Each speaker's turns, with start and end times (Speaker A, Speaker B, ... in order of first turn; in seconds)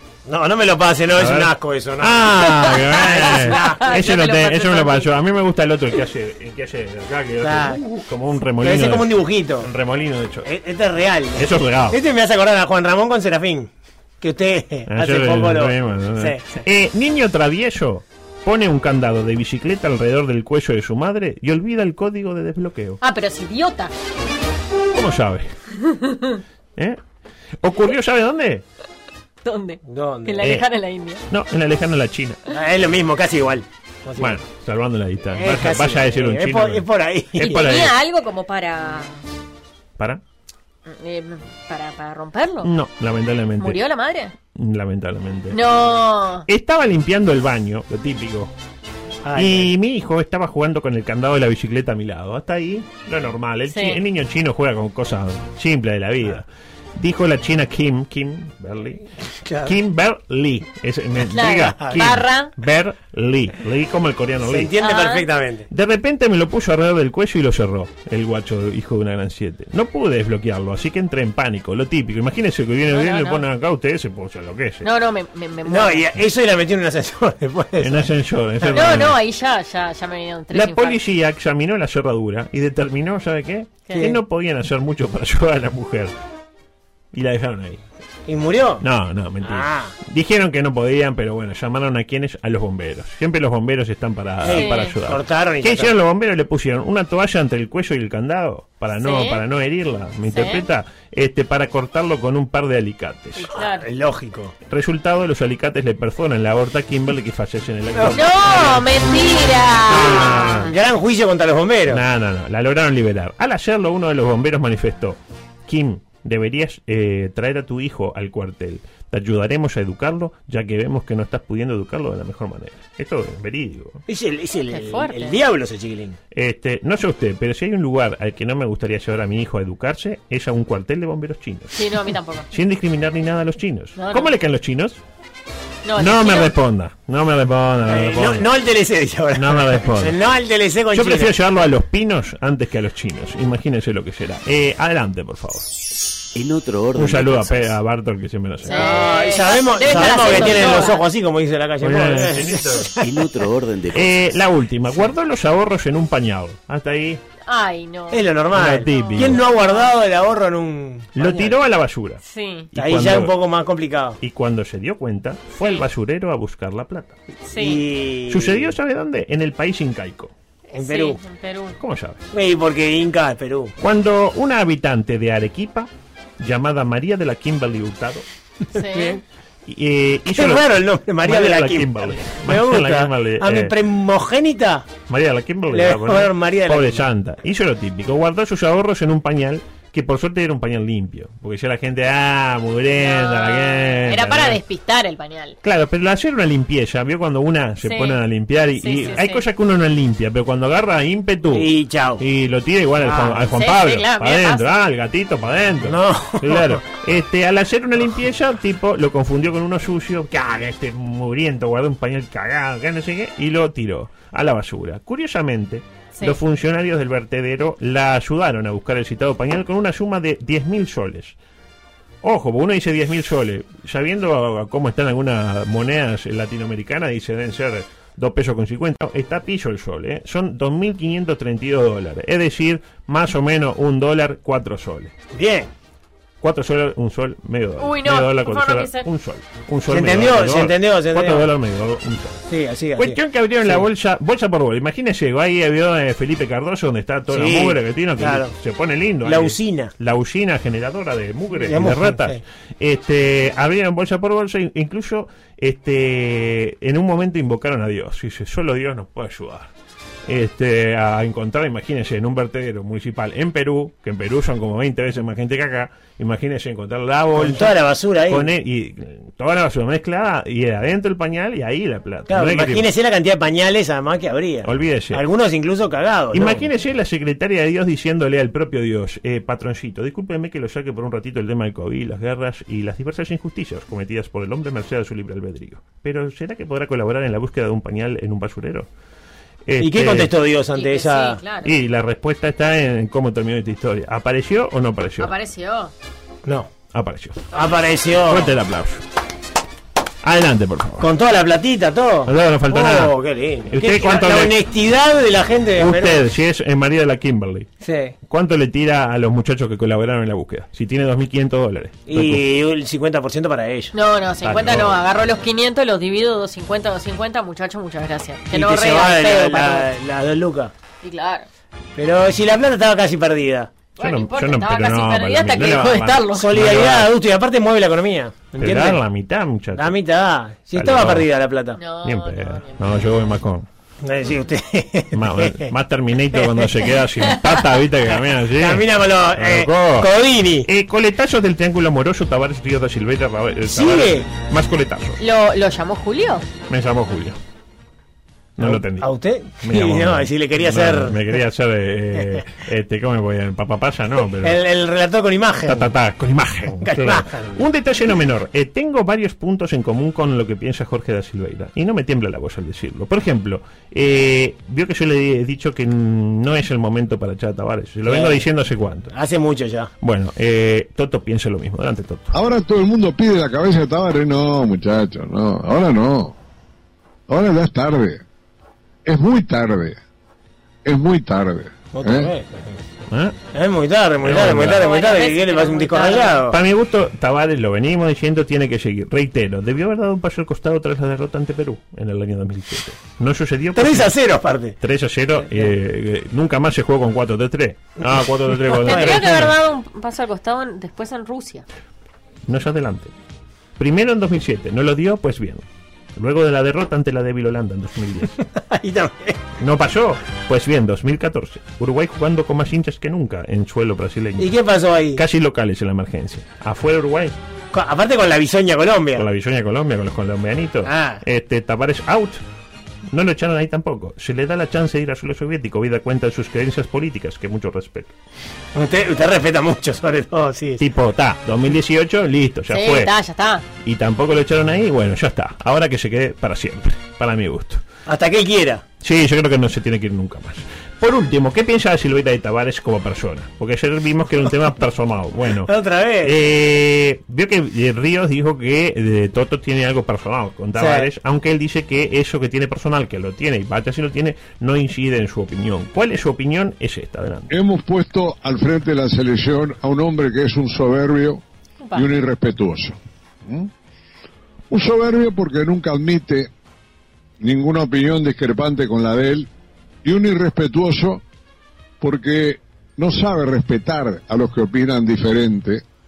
Speaker A: 0.3-4.0, 7.4-7.8, 8.6-9.7, 10.4-13.7, 14.2-16.6, 29.9-30.4, 32.5-34.4, 35.4-37.7, 49.2-49.7, 59.4-59.8, 64.4-65.7, 75.7-78.1, 78.6-79.1, 88.3-88.8, 89.4-89.9, 94.4-95.9, 103.5-104.5, 108.0-108.7, 109.9-112.0, 124.1-126.2, 137.9-141.3, 148.7-153.0, 158.1-161.5, 162.8-164.2, 167.6-168.7, 170.7-171.2, 172.3-173.7, 178.8-179.2, 180.3-184.9, 185.7-187.0, 201.5-202.2, 203.0-203.4, 205.8-206.8, 235.3-235.7, 239.9-241.5, 242.5-243.8, 247.3-248.5, 249.2-249.9, 251.7-252.4, 267.4-268.5, 272.3-276.7, 289.8-291.4, 296.4-296.7, 297.5-298.5, 301.0-306.2, 307.8-308.1, 312.1-313.9, 318.5-320.7, 322.0-323.7, 326.3-329.0, 329.8-331.8, 334.0-335.7, 336.3-336.7, 338.1-340.7, 343.7-344.2, 348.6-351.3, 354.4-355.9, 356.8-357.6, 368.1-368.4, 369.1-369.9, 381.9-382.8, 383.5-386.6, 393.8-394.8, 398.8-399.4, 408.7-409.4, 414.4-415.2, 417.7-419.2, 420.9-421.2, 428.8-430.8, 438.1-438.8, 445.7-446.4, 450.8-451.1
Speaker B: 1.1-9.1, 9.6-10.5, 11.4-12.0, 14.9-23.0, 24.9-25.5, 27.6-28.6, 30.4-30.6, 31.3-32.4, 34.2-37.9, 42.6-43.8, 44.5-45.6, 46.5-48.5, 49.4-59.0, 59.6-64.7, 65.7-74.9, 77.8-79.2, 80.5-86.1, 87.1-87.8, 88.8-103.5, 104.7-109.3, 109.8-110.7, 111.9-124.0, 126.3-131.9, 132.5-135.0, 136.0-138.5, 139.3-140.2, 140.9-145.7, 146.9-149.1, 149.8-150.9, 151.8-152.9, 153.9-157.2, 158.5-159.4, 161.2-163.3, 164.2-167.2, 168.3-170.3, 171.8-172.2, 173.8-178.2, 179.7-180.7, 181.2-183.7, 185.1-194.6, 195.6-221.3, 222.2-235.1, 236.4-242.4, 243.0-259.7, 260.3-267.7, 268.3-272.9, 274.6-275.2, 276.3-288.9, 289.7-290.3, 291.6-295.3, 296.9-297.6, 298.2-299.0, 300.2-301.1, 302.2-303.2, 303.7-304.5, 305.8-307.7, 308.3-312.4, 314.4-315.0, 324.0-327.1, 328.6-329.9, 330.8-331.3, 332.0-333.7, 335.1-340.1, 340.6-345.2, 346.7-347.4, 348.6-354.6, 355.7-369.1, 370.0-372.3, 383.1-383.4, 384.2-384.9, 386.5-394.1, 394.8-399.5, 402.5-403.1, 403.8-405.6, 406.2-408.3, 409.6-414.5, 415.1-417.4, 419.2-422.4, 423.1-428.1, 430.8-433.1, 433.8-437.8, 439.0-445.7, 446.2-457.5
Speaker C: 2.6-5.1, 23.0-23.9, 25.9-26.4, 29.4-31.2, 37.4-39.2, 40.9-42.7, 43.6-44.3, 45.5-46.5, 53.7-54.0, 61.3-62.5, 64.8-65.2, 72.9-73.4, 74.8-76.1, 78.7-81.0, 94.5-94.9, 99.0-99.4, 100.3-100.6, 103.3-103.8, 108.1-110.7, 124.7-125.4, 131.8-132.5, 134.0-134.3, 135.8-136.5, 148.7-151.0, 157.5-158.3, 158.8-159.9, 162.2-162.7, 167.5-167.8, 170.8-171.8, 178.7-179.2, 192.9-195.6, 197.8-198.2, 198.8-199.4, 203.5-204.7, 237.8-239.1, 290.8-291.8, 295.2-295.9, 313.9-319.9, 321.0-321.5, 324.0-326.4, 331.8-332.8, 345.2-346.4, 384.5-386.4, 398.7-401.7, 432.7-433.6, 461.8-462.1
Speaker D: 146.3-147.7, 153.0-154.2
Speaker E: 372.3-376.3, 377.3-378.2, 379.1-380.0, 380.8-382.3, 457.5-461.4, 461.9-463.7, 464.7-466.5, 467.4-469.5, 470.0-471.2, 472.0-475.8